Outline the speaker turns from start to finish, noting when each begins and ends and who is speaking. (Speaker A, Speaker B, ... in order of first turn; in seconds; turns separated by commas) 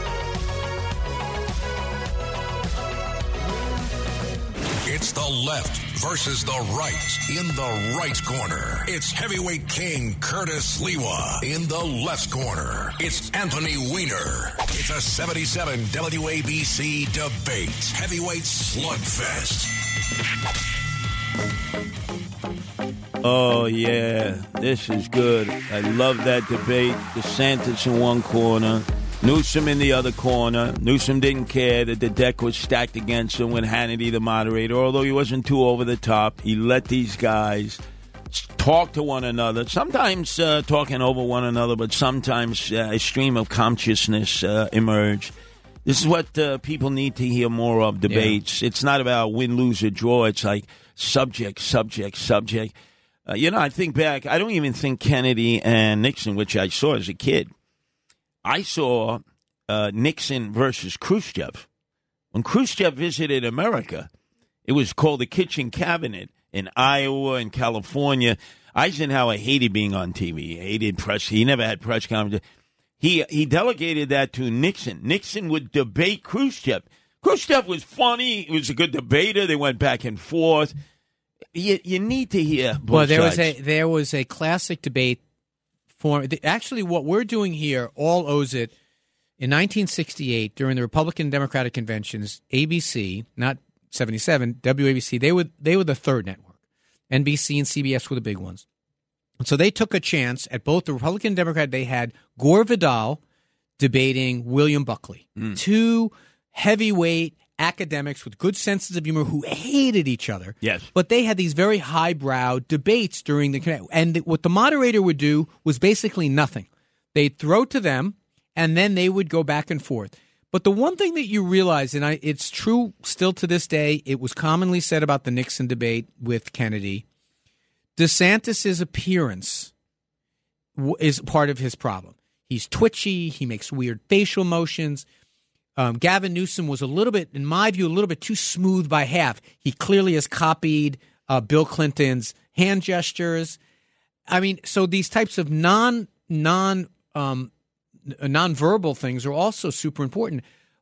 Speaker A: 4.8-19.8, Speaker B: 23.2-37.8, Speaker B: 38.3-45.3, Speaker B: 45.8-52.7, Speaker C: 48.1-48.4, Speaker B: 53.2-57.5, Speaker B: 58.4-61.7, Speaker B: 62.3-64.1, Speaker B: 64.7-72.4, Speaker B: 73.0-80.7, Speaker B: 81.5-83.5, Speaker C: 82.9-85.2, Speaker C: 86.0-88.7, Speaker C: 89.4-96.5, Speaker C: 97.1-98.6, Speaker C: 99.4-103.2, Speaker C: 103.8-127.0, Speaker B: 110.6-110.9, Speaker C: 128.0-129.7, Speaker C: 130.8-135.1, Speaker C: 135.8-143.6, Speaker C: 144.3-147.5, Speaker C: 148.1-150.4